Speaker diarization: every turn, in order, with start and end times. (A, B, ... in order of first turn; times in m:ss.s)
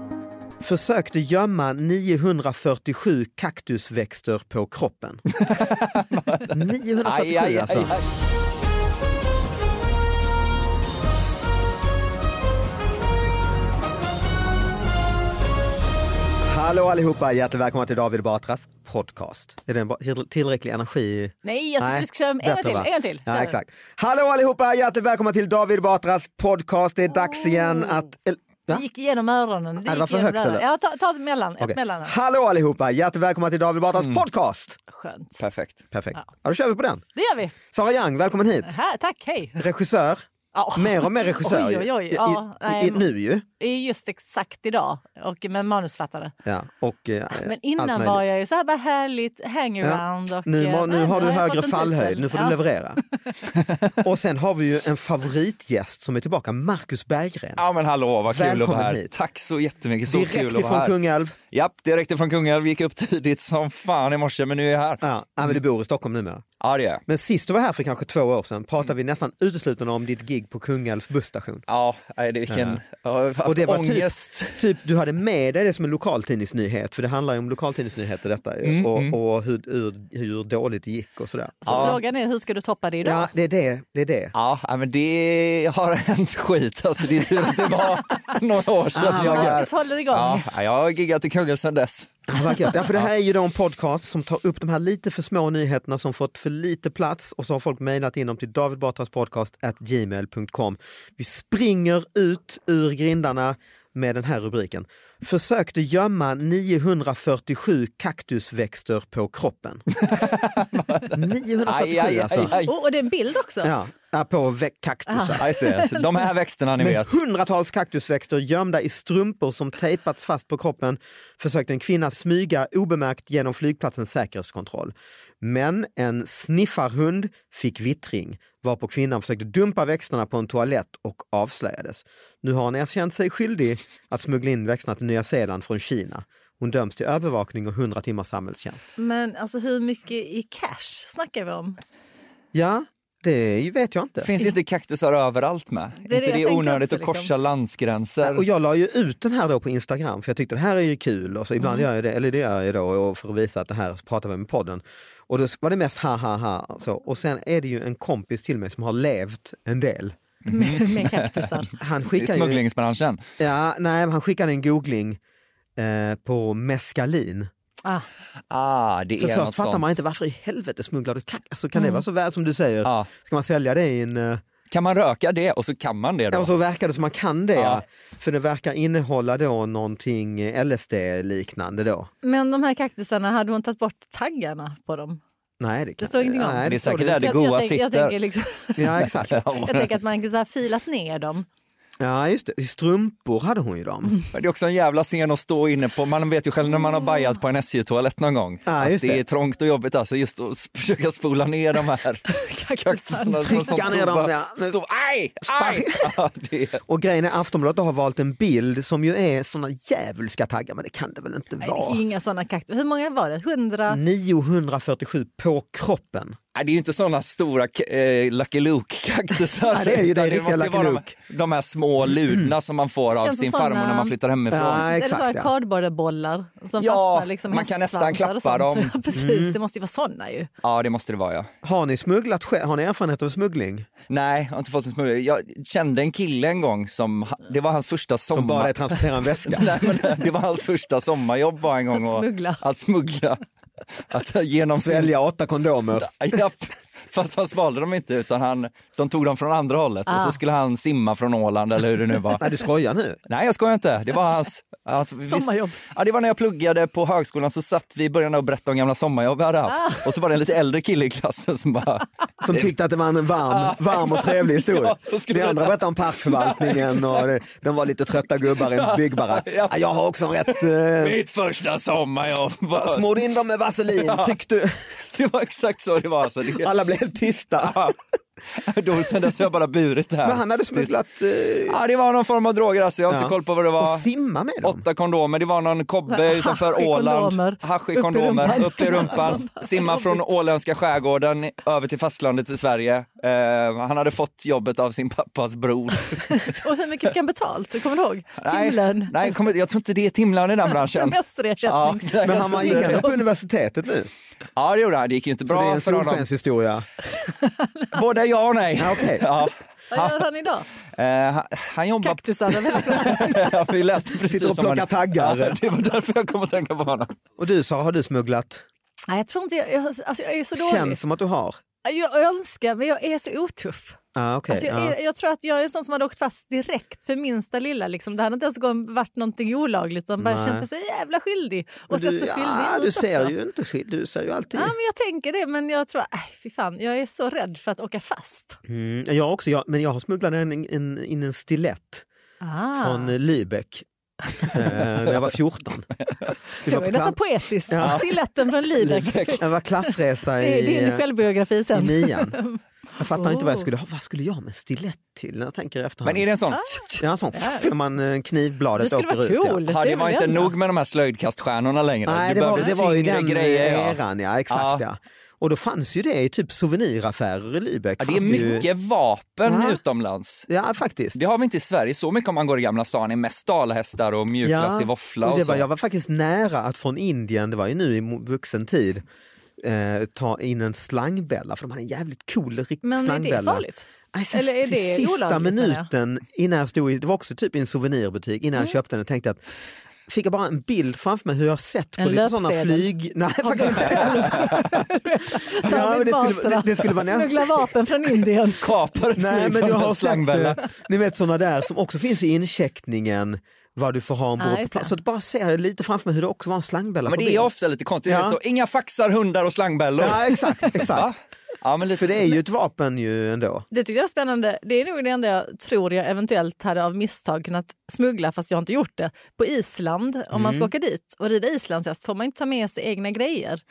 0:00.6-0:05.2 A
0:05.3-0:08.0 B
0:06.5-0:07.9 A
0:16.4-0:28.8 A
0:21.4-0:23.6 C
0:27.1-0:28.0 C
0:28.7-0:32.1 C
0:29.8-0:30.6 A
0:31.6-0:34.8 A
0:34.0-0:34.2 B
0:34.9-0:35.4 C
0:35.4-0:35.8 B
0:35.9-0:37.0 A
0:37.1-0:37.5 C
0:37.7-0:38.8 A
0:38.6-0:39.6 C
0:39.6-0:43.4 A
0:40.5-0:43.1 C
0:43.6-0:46.3 C
0:46.4-0:48.2 A
0:47.3-0:52.6 C
0:49.8-0:53.0 A
0:53.5-0:53.9 B
0:54.0-0:57.6 A
0:57.6-1:00.9 B
0:58.3-0:59.1 A
1:00.1-1:01.4 A
1:01.5-1:05.0 B
1:05.0-1:06.4 A
1:06.6-1:07.0 B
1:07.1-1:11.7 A
1:11.7-1:14.7 B
1:12.5-1:12.8 A
1:13.4-1:22.0 A
1:18.6-1:19.2 B
1:21.6-1:23.3 C
1:21.7-1:22.0 B
1:23.0-1:24.3 A
1:24.3-1:33.0 B
1:28.9-1:29.7 A
1:29.1-1:30.5 C
1:32.3-1:49.9 A
1:49.9-1:52.7 B
1:51.1-1:52.5 A
1:52.4-1:53.7 C
1:53.6-1:55.4 A
1:55.1-1:56.2 C
1:55.4-1:57.2 B
1:56.8-2:18.9 A
2:19.0-2:21.8 C
2:22.5-2:24.3 A
2:24.2-2:28.4 B
2:26.0-2:27.3 C
2:28.2-2:40.2 A
2:40.5-2:41.6 B
2:40.5-2:41.7 C
2:41.8-2:42.6 A
2:42.1-2:43.2 B
2:43.4-2:45.2 A
2:45.8-2:47.5 A
2:48.5-2:50.0 B
2:49.2-2:54.4 A
2:51.8-2:52.0 C
2:52.8-2:53.1 B
2:54.7-2:56.5 B
2:56.3-3:02.1 A
2:57.6-2:57.8 B
3:02.2-3:05.2 C
3:05.6-3:07.4 A
3:06.0-3:11.5 C
3:06.6-3:08.1 B
3:08.8-3:09.4 A
3:09.0-3:09.9 B
3:12.0-3:14.2 A
3:14.3-3:22.2 B
3:18.7-3:19.2 A
3:22.3-3:24.0 C
3:22.8-3:26.8 B
3:23.4-3:24.8 A
3:25.4-3:26.2 A
3:26.9-3:32.0 A
3:31.6-3:34.0 C
3:33.9-3:36.4 A
3:36.6-3:44.9 B
3:39.7-3:41.0 A
3:43.1-3:44.1 C
3:44.5-3:45.5 A
3:44.7-3:50.5 C
3:46.8-3:49.0 B
3:49.1-3:49.6 A
3:50.6-3:51.5 B
3:51.6-3:53.9 A
3:54.1-4:03.4 B
3:58.3-3:59.9 A
4:01.9-4:02.6 C
4:04.0-4:05.1 B
4:04.8-4:06.1 A
4:06.0-4:12.5 B
4:10.1-4:10.4 C
4:12.4-4:13.2 A
4:13.3-4:22.7 B
4:15.3-4:15.8 C
4:19.7-4:20.0 C
4:22.4-4:31.2 A
4:23.4-4:27.3 B
4:28.6-4:29.8 B
4:30.4-4:33.2 B
4:32.8-4:34.8 A
4:34.0-4:34.4 B
4:35.1-4:36.7 B
4:36.5-4:37.8 A
4:37.6-4:38.0 B
4:38.6-4:41.0 B
4:40.2-4:41.8 A
4:41.6-4:44.1 B
4:43.1-4:44.8 A
4:44.6-4:56.6 B
4:46.1-4:50.2 C
4:56.3-4:59.3 C
4:58.4-5:03.1 B
5:00.7-5:03.2 C
5:02.2-5:04.1 A
5:04.6-5:06.3 B
5:05.5-5:06.8 A
5:07.2-5:07.9 C
5:07.9-5:10.2 B
5:08.8-5:09.3 A
5:09.9-5:10.7 C
5:11.0-5:17.1 B
5:12.0-5:13.6 C
5:14.2-5:15.6 A
5:17.4-5:18.6 A
5:19.1-5:21.0 C
5:20.6-5:21.6 A
5:21.8-5:24.0 C
5:24.2-5:25.0 A
5:24.5-5:33.3 C
5:30.2-5:30.7 A
5:31.9-5:34.7 A
5:34.5-5:38.6 C
5:38.7-5:42.0 A
5:42.4-5:43.1 C
5:42.8-5:43.9 A
5:44.4-5:45.9 A
5:46.6-5:53.7 C
5:46.6-5:47.2 A
5:47.7-5:48.0 A
5:47.8-5:48.1 B
5:48.8-5:49.4 B
5:49.3-5:51.0 A
5:51.7-5:52.4 A
5:53.0-5:56.3 A
5:56.0-5:57.1 B
5:56.5-5:57.7 C
5:57.0-5:59.6 A
5:58.8-6:00.5 C
5:59.7-6:04.0 B
6:02.1-6:08.7 A
6:04.5-6:04.8 B
6:08.0-6:10.5 B
6:09.4-6:09.8 A
6:10.5-6:11.2 A
6:11.2-6:15.6 B
6:14.4-6:19.0 A
6:19.6-6:29.4 A
6:22.8-6:25.9 C
6:30.1-6:34.9 A
6:32.0-6:32.9 C
6:33.4-6:38.7 C
6:34.3-6:34.6 B
6:35.5-6:37.7 A
6:38.5-6:40.6 B
6:39.2-6:47.5 A
6:44.4-6:44.9 C
6:47.1-6:52.4 B
6:48.1-6:48.4 A
6:50.0-6:51.1 A
6:52.0-6:53.7 A
6:53.7-7:03.6 C
7:00.3-7:00.7 A